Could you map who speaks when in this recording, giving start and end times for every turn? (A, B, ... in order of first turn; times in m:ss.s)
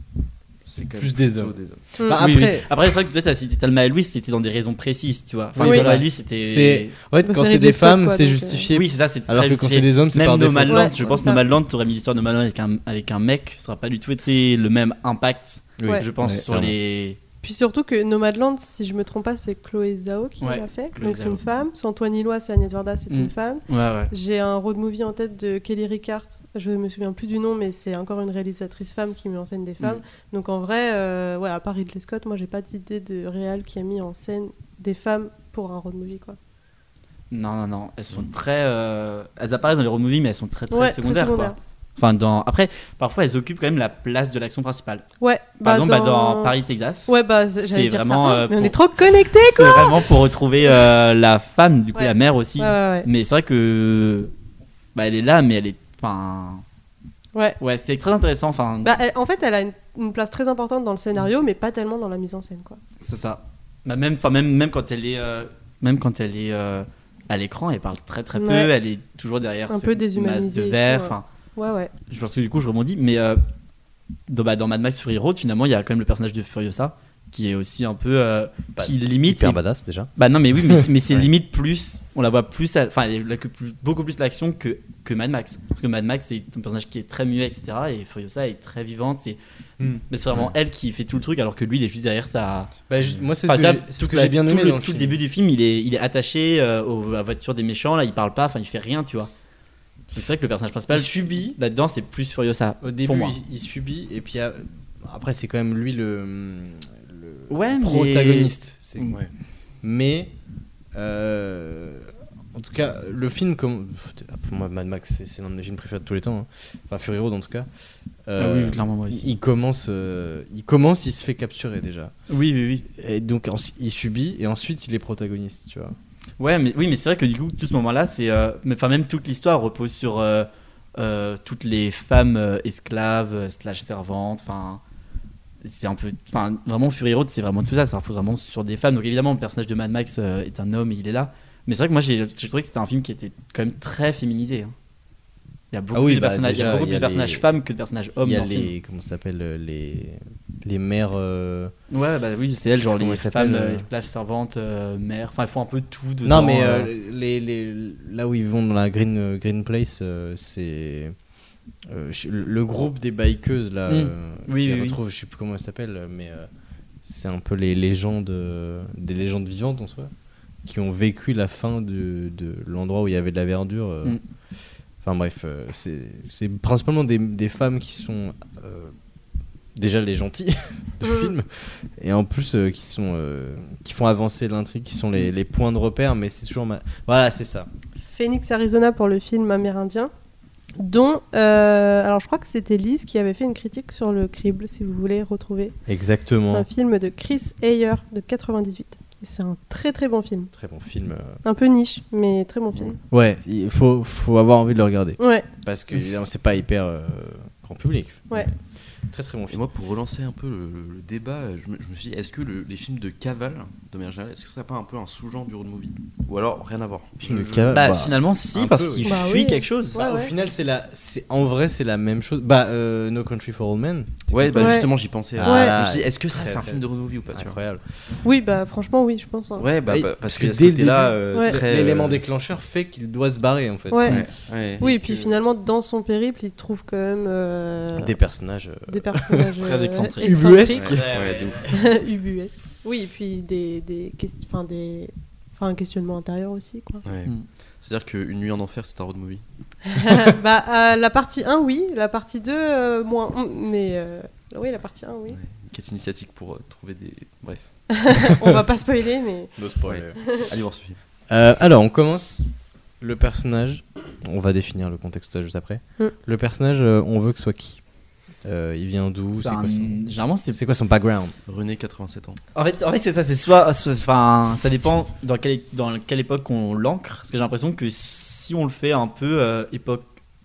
0:00.6-0:01.8 A
0:00.9-0:02.7 B
0:02.2-0:07.0 C
0:05.6-0:11.1 B
0:05.6-0:05.9 D
0:07.2-0:08.7 D
0:08.7-0:17.2 C
0:10.7-0:11.4 D
0:15.8-0:16.8 B
0:17.4-0:36.4 D
0:20.4-0:21.4 C
0:23.1-0:24.1 C
0:37.3-0:45.1 C
0:40.7-0:41.6 D
0:45.2-0:46.5 D
0:45.6-0:48.8 C
0:47.1-0:50.0 D
0:49.3-0:54.3 C
0:52.0-0:53.1 D
0:55.0-0:56.6 C
0:57.6-0:58.9 C
0:58.8-1:02.8 D
1:03.0-1:11.2 C
1:08.4-1:08.7 D
1:09.7-1:11.9 D
1:12.1-1:13.4 C
1:14.3-1:19.6 C
1:18.8-1:20.9 B
1:20.2-1:29.4 C
1:30.1-1:32.7 C
1:32.9-1:35.2 B
1:33.5-1:39.3 C
1:40.1-1:43.4 C
1:40.9-1:41.6 B
1:42.8-1:49.2 B
1:47.5-1:49.2 C
1:49.8-1:50.3 B
1:50.9-1:57.7 B
1:58.3-2:02.1 B
1:58.4-1:59.3 C
2:02.3-2:02.9 C
2:03.0-2:06.0 B
2:06.4-2:14.8 C
2:15.6-2:24.7 C
2:25.7-2:28.7 C
2:25.9-2:27.5 B
2:28.2-2:31.7 B
2:31.9-2:36.9 C
2:32.8-2:33.9 B
2:36.2-2:41.2 B
2:41.9-2:46.5 B
2:43.9-2:45.0 C
2:47.0-2:50.1 B
2:50.6-2:54.2 B
2:55.0-2:59.0 B
2:59.8-3:07.7 B
3:01.0-3:01.3 D
3:08.1-3:10.1 D
3:10.8-3:15.8 D
3:15.9-3:16.7 B
3:16.5-3:20.5 D
3:20.5-3:21.4 B
3:21.4-3:23.0 D
3:23.1-3:28.5 B
3:25.2-3:25.5 D
3:29.1-3:29.6 B
3:29.5-3:38.0 A
3:37.2-3:39.2 B
3:37.7-3:40.0 C
3:39.0-3:40.3 D
3:39.9-3:47.8 B
3:44.3-3:47.6 A
3:44.6-3:44.9 D
3:45.4-3:45.7 D
3:48.2-3:49.6 D
3:49.6-3:52.2 A
3:49.9-3:54.3 B
3:51.3-3:51.6 D
3:53.9-3:54.2 D
3:54.1-3:55.2 A
3:54.8-3:58.2 D
3:54.8-3:55.2 B
3:58.0-3:59.5 B
3:58.9-4:00.9 D
3:59.6-4:01.7 C
4:00.2-4:01.1 B
4:00.7-4:01.7 A
4:01.7-4:07.0 D
4:07.0-4:09.4 A
4:10.0-4:15.4 D
4:15.3-4:17.8 A
4:18.0-4:19.6 D
4:19.6-4:20.4 B
4:19.9-4:21.0 A
4:20.2-4:20.5 D
4:21.3-4:22.5 B
4:23.0-4:31.4 B
4:29.3-4:30.6 C
4:31.5-4:32.4 A
4:32.6-4:40.1 C